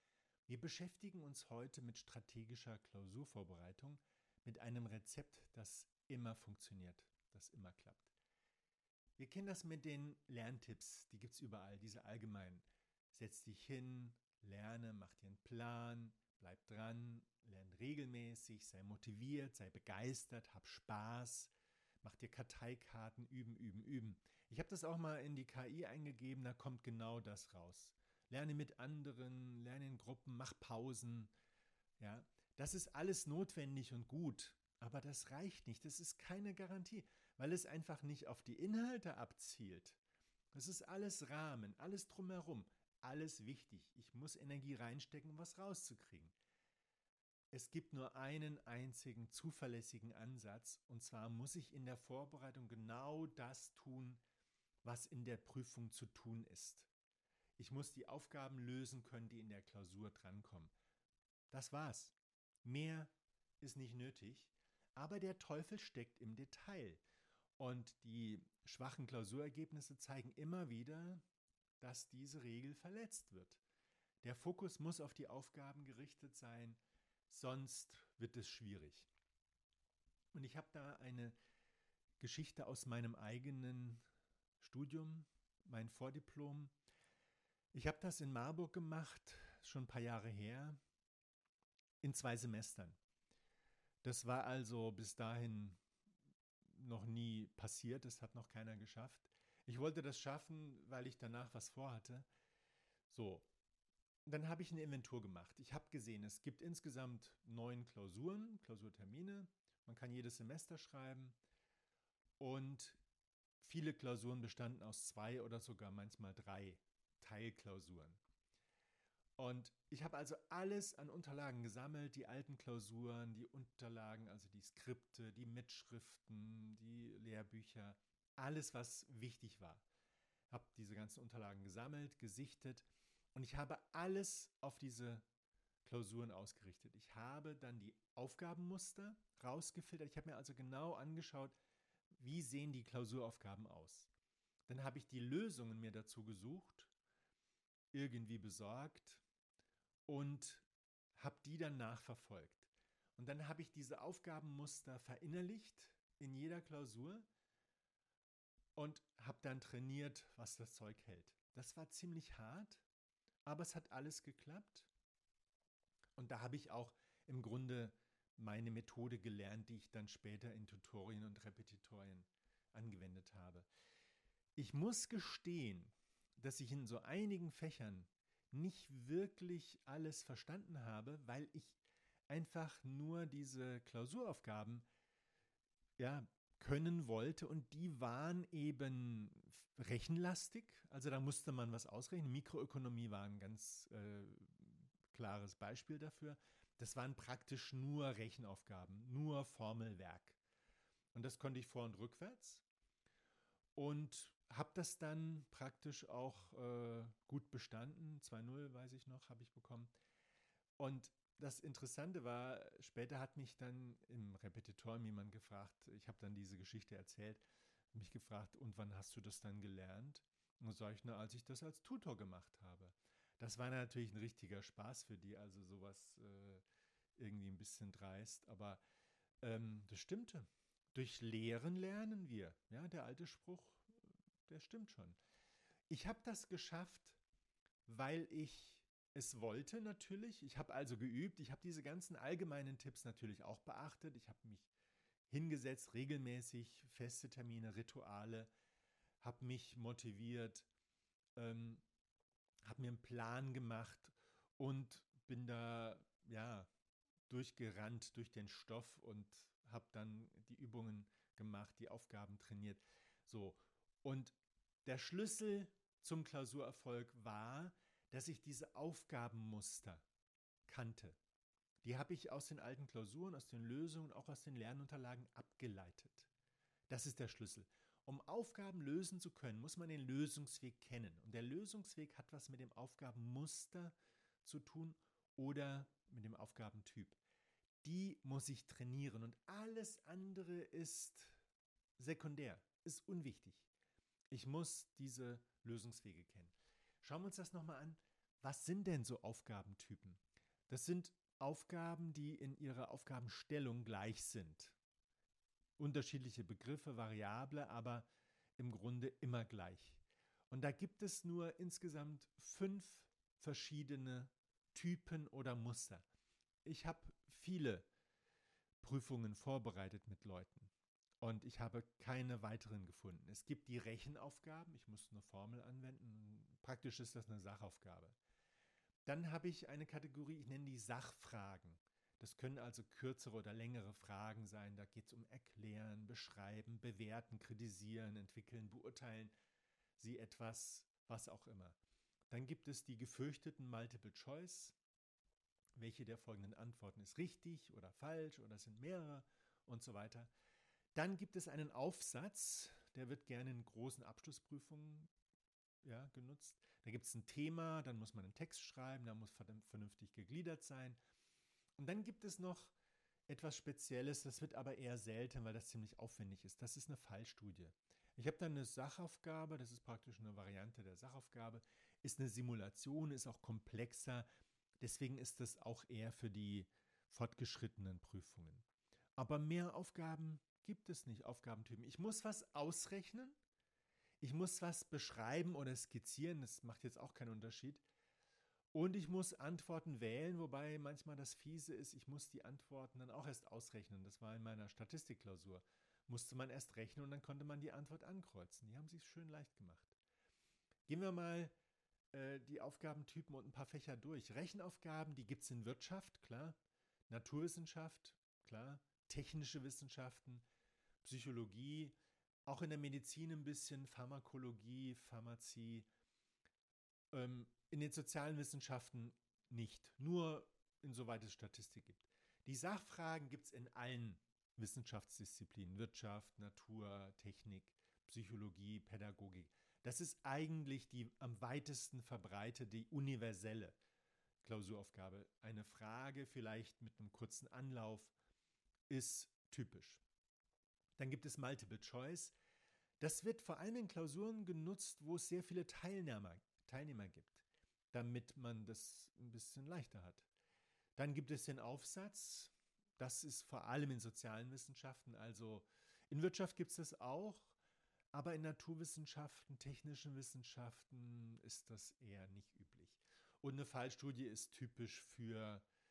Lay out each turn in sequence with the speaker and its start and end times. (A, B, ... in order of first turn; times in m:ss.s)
0:00.5-0:08.1 A
0:09.2-0:21.5 A
0:22.0-0:31.3 A
0:32.0-0:40.0 A
0:40.5-0:46.3 A
0:47.5-0:54.2 A
0:54.8-0:56.9 A
0:57.6-1:00.7 A
1:01.5-1:07.0 A
1:07.6-1:11.2 A
1:11.8-1:13.6 A
1:14.2-1:19.1 A
1:20.3-1:21.3 A
1:22.2-1:24.0 A
1:24.6-1:26.7 A
1:27.7-1:30.8 A
1:32.0-1:33.0 A
1:34.0-1:35.8 A
1:36.7-1:42.3 A
1:43.1-1:43.5 A
1:44.2-1:51.4 A
1:52.4-1:53.0 A
1:53.6-1:58.2 A
1:59.4-2:09.8 A
2:10.5-2:15.2 A
2:15.8-2:21.6 A
2:22.2-2:24.1 A
2:24.7-2:26.9 A
2:27.9-2:29.2 A
2:30.1-2:37.3 A
2:38.8-2:42.8 A
2:43.4-2:44.9 A
2:46.2-2:53.7 A
2:54.6-3:04.8 A
3:06.0-3:20.4 A
3:21.1-3:22.6 A
3:23.8-3:29.9 A
3:30.8-3:46.6 A
3:47.2-3:48.8 A
3:49.4-3:55.2 A
3:55.9-3:57.2 A
3:57.9-4:04.7 A
4:05.3-4:08.5 A
4:09.2-4:10.7 A
4:11.4-4:11.8 A
4:12.6-4:16.7 A
4:17.3-4:30.0 A
4:30.7-4:31.2 A
4:31.8-4:36.3 A
4:36.9-4:47.2 A
4:47.8-4:51.4 A
4:52.0-4:53.7 A
4:54.3-5:04.8 A
5:05.8-5:08.1 A
5:08.6-5:16.0 A
5:16.6-5:17.9 A
5:18.8-5:28.2 A
5:29.0-5:39.3 A
5:40.0-5:41.8 A
5:42.3-5:44.8 A
5:45.8-5:50.3 A
5:50.9-5:55.1 A
5:55.8-6:01.0 A
6:01.8-6:02.7 A
6:03.3-6:14.3 A
6:14.8-6:18.6 A
6:19.2-6:23.4 A
6:24.2-6:27.8 A
6:28.7-6:39.9 A
6:40.9-6:41.5 A
6:42.1-6:46.6 A
6:47.1-6:50.4 A
6:51.0-6:55.9 A
6:57.1-7:13.8 A
7:14.4-7:18.1 A
7:18.9-7:20.0 A
7:21.0-7:22.3 A
7:23.0-7:30.3 A
7:31.0-7:37.6 A
7:38.1-7:45.6 A